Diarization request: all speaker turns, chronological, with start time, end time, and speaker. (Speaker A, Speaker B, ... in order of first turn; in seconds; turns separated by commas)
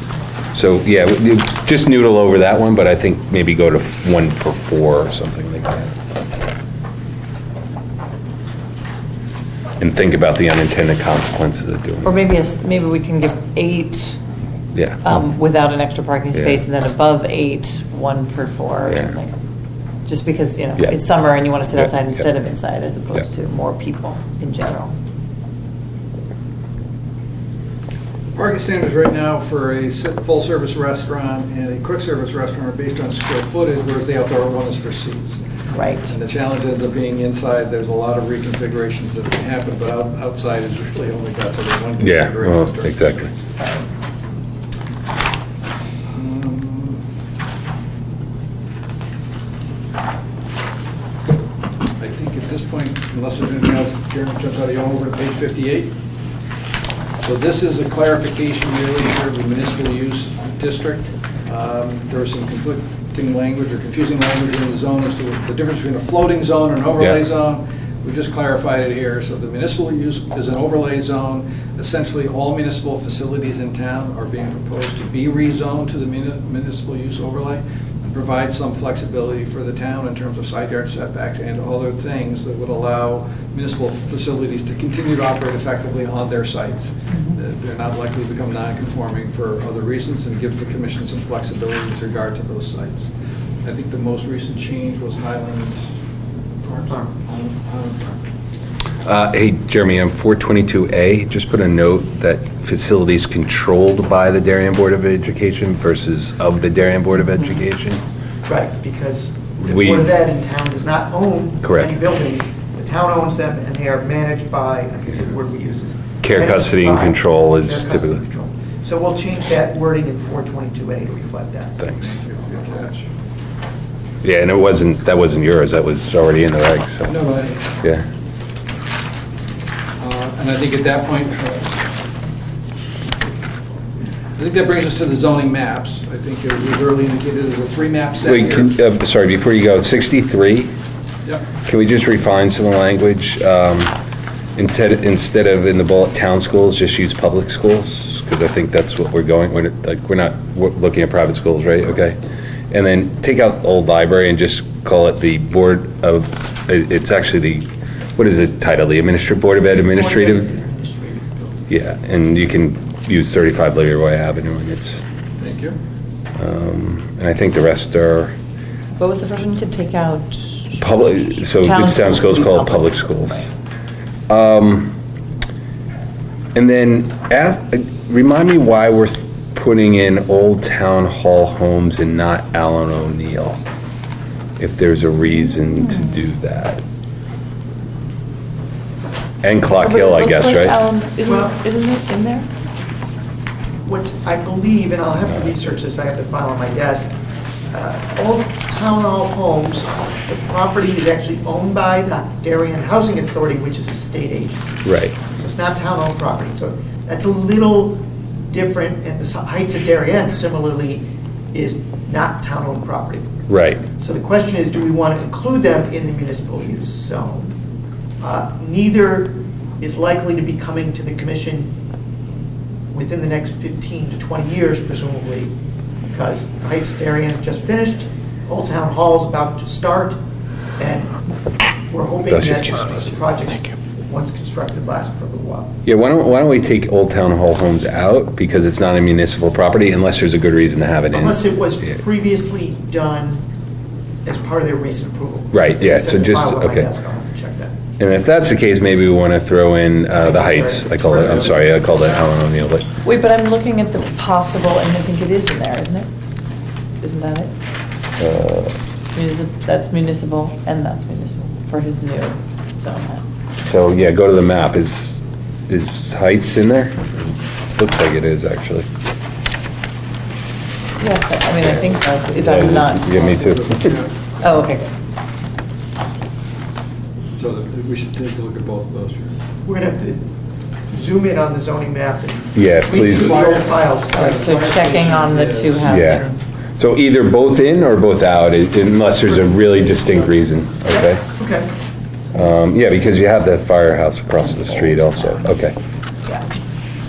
Speaker A: 0.5-5.9, Speaker A: 9.8-12.2, Speaker B: 12.0-14.2, Speaker A: 14.7-15.2, Speaker B: 15.0-19.3, Speaker A: 16.3-16.6, Speaker B: 20.1-24.9, Speaker C: 28.3-35.4, Speaker B: 35.7-36.1, Speaker C: 36.0-43.3, Speaker A: 42.0-43.3, Speaker B: 43.6-43.9, Speaker C: 46.1-47.0, Speaker C: 52.0-55.9, Speaker C: 57.2-93.1, Speaker C: 93.6-95.9, Speaker C: 96.6-98.2, Speaker A: 99.0-108.0, Speaker D: 108.5-121.8, Speaker A: 109.6-110.1, Speaker A: 111.6-111.9, Speaker A: 116.2-118.2, Speaker C: 122.0-123.1, Speaker A: 124.2-127.1, Speaker C: 127.1-127.7, Speaker C: 130.0-131.8, Speaker C: 134.4-138.7, Speaker A: 138.2-140.7, Speaker A: 141.6-143.9, Speaker A: 144.6-152.2, Speaker A: 152.7-160.5, Speaker D: 159.8-161.6, Speaker A: 161.7-165.0, Speaker C: 165.4-165.8, Speaker A: 166.4-168.3, Speaker B: 169.0-173.5, Speaker A: 170.8-173.5, Speaker A: 174.3-174.9, Speaker A: 176.5-183.6, Speaker A: 184.6-186.8, Speaker A: 189.4-190.8, Speaker B: 189.7-192.5, Speaker D: 191.2-191.5, Speaker D: 193.8-197.1, Speaker D: 197.7-213.2, Speaker A: 204.8-205.1, Speaker A: 213.5-213.8, Speaker D: 213.8-217.5, Speaker D: 218.2-221.7, Speaker D: 222.9-225.5, Speaker D: 226.1-230.2, Speaker D: 230.8-231.2, Speaker D: 231.9-235.7, Speaker A: 232.3-232.6, Speaker A: 235.8-241.4, Speaker D: 241.1-243.4, Speaker D: 244.2-247.7, Speaker A: 245.5-246.9, Speaker A: 248.0-252.8, Speaker D: 250.2-252.3, Speaker B: 253.0-256.1, Speaker B: 257.0-257.5, Speaker A: 258.2-258.8, Speaker B: 259.1-263.2, Speaker A: 263.6-267.1, Speaker A: 267.8-268.9, Speaker B: 271.0-273.6, Speaker A: 272.4-273.9, Speaker C: 273.1-274.1, Speaker B: 274.4-274.9, Speaker C: 277.4-279.4, Speaker D: 279.6-280.2, Speaker D: 280.9-285.2, Speaker A: 282.5-283.4, Speaker C: 283.0-285.9, Speaker B: 284.1-286.4, Speaker A: 285.8-291.2, Speaker D: 289.7-291.7, Speaker A: 292.3-295.8